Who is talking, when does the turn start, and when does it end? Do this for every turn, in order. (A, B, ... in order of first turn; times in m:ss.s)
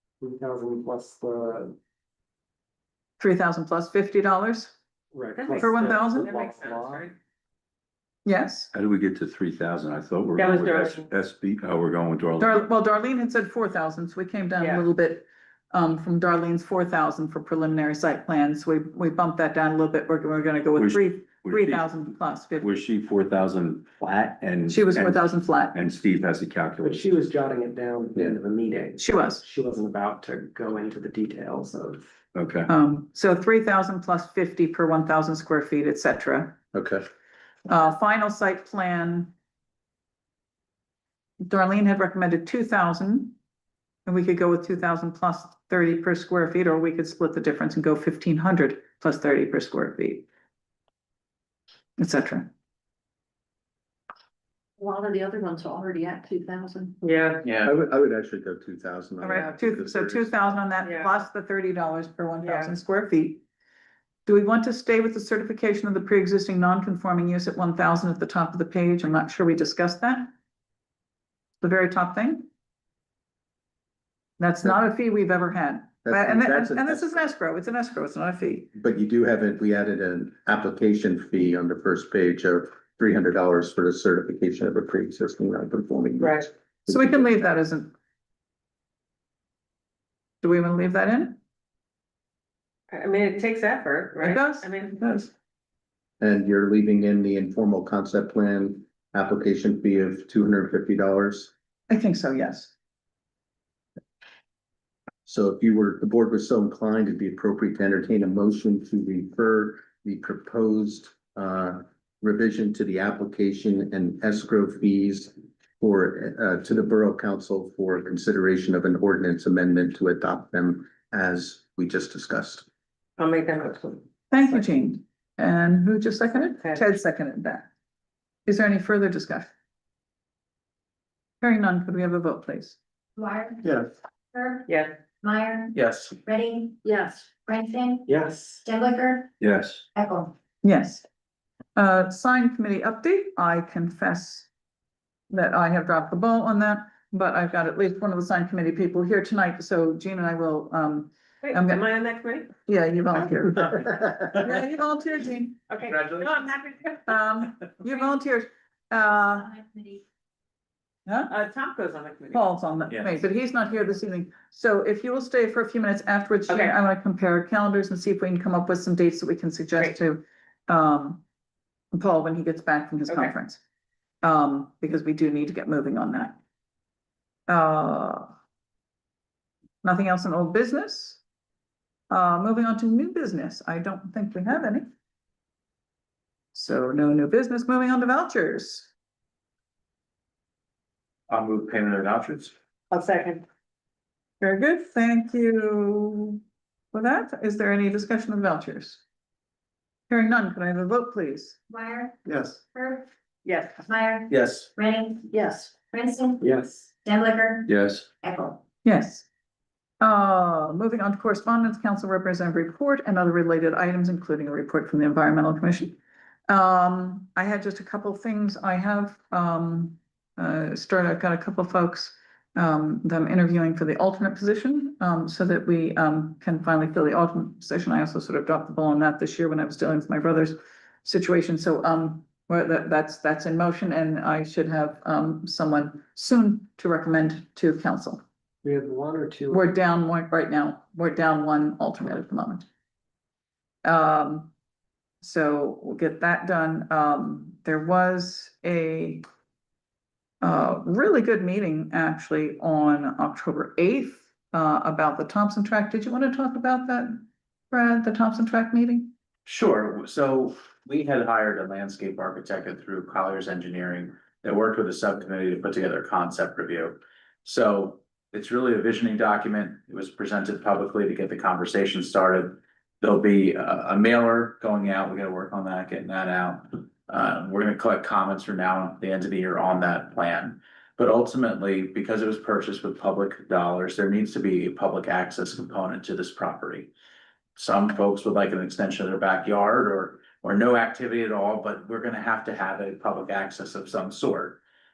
0:00.2-0:01.8 A
0:03.2-0:04.7 B
0:05.1-0:07.1 A
0:05.3-0:07.1 C
0:05.6-0:06.3 B
0:08.2-0:08.7 B
0:08.7-0:12.6 D
0:10.4-0:11.1 C
0:12.4-0:22.7 B
0:14.6-0:14.8 C
0:20.8-0:27.2 D
0:24.7-0:25.8 B
0:26.8-0:32.0 A
0:29.0-0:29.4 B
0:32.3-0:32.7 D
0:32.7-0:36.6 B
0:36.7-0:37.0 E
0:37.7-0:39.3 B
0:41.4-0:43.4 B
0:44.0-0:50.2 B
0:52.0-0:52.5 B
0:54.8-0:57.0 F
0:57.0-0:57.4 C
0:57.4-0:57.7 G
0:57.6-1:00.5 E
0:59.2-1:03.4 B
1:00.8-1:01.2 C
1:02.4-1:02.7 C
1:04.2-1:10.3 B
1:11.6-1:12.4 B
1:14.4-1:18.7 B
1:16.0-1:17.2 E
1:18.7-1:27.2 E
1:26.2-1:26.5 C
1:26.9-1:27.9 B
1:30.4-1:31.4 B
1:32.9-1:35.0 C
1:34.2-1:35.3 B
1:36.2-1:41.5 E
1:41.9-1:42.7 B
1:45.2-2:02.6 E
2:03.2-2:04.0 C
2:04.3-2:07.7 B
2:06.4-2:06.8 C
2:08.4-2:09.5 B
2:11.4-2:12.8 B
2:13.2-2:13.7 H
2:14.3-2:14.7 H
2:14.7-2:15.0 C
2:15.2-2:16.8 H
2:15.7-2:16.2 G
2:17.4-2:18.1 H
2:18.1-2:18.6 A
2:18.6-2:19.3 H
2:19.4-2:19.8 D
2:19.9-2:20.3 H
2:20.6-2:21.0 B
2:21.8-2:24.5 B
2:25.3-2:31.8 B
2:31.4-2:32.5 C
2:32.6-2:35.6 B
2:33.7-2:34.4 G
2:35.7-2:37.2 C
2:35.8-2:36.4 G
2:37.0-2:39.6 B
2:39.6-2:40.0 H
2:41.0-2:41.3 B
2:41.3-2:42.4 C
2:42.3-2:51.2 B
2:42.9-2:43.2 G
2:46.5-2:46.7 C
2:51.9-2:53.6 B
2:53.1-2:53.3 C
2:54.2-2:56.4 B
2:57.5-2:58.3 B
2:59.8-3:01.2 B
3:02.1-3:04.8 B
3:06.5-3:08.9 B
3:11.3-3:12.5 G
3:12.9-3:13.4 C
3:14.4-3:16.4 B
3:16.9-3:19.0 B
3:20.1-3:21.6 B
3:21.7-3:23.1 H
3:22.3-3:22.6 A
3:23.4-3:23.8 C
3:23.9-3:25.4 H
3:24.3-3:24.6 G
3:25.3-3:25.7 A
3:25.9-3:26.4 H
3:26.4-3:26.9 A
3:27.0-3:28.6 H
3:27.7-3:28.1 D
3:28.8-3:29.3 B
3:30.0-3:58.2 B
3:58.6-3:59.7 A
3:59.5-4:02.6 B
4:03.8-4:04.5 B
4:05.2-4:09.2 B
4:10.4-4:19.1 B
4:19.4-4:46.9 G
4:47.6-4:54.6 G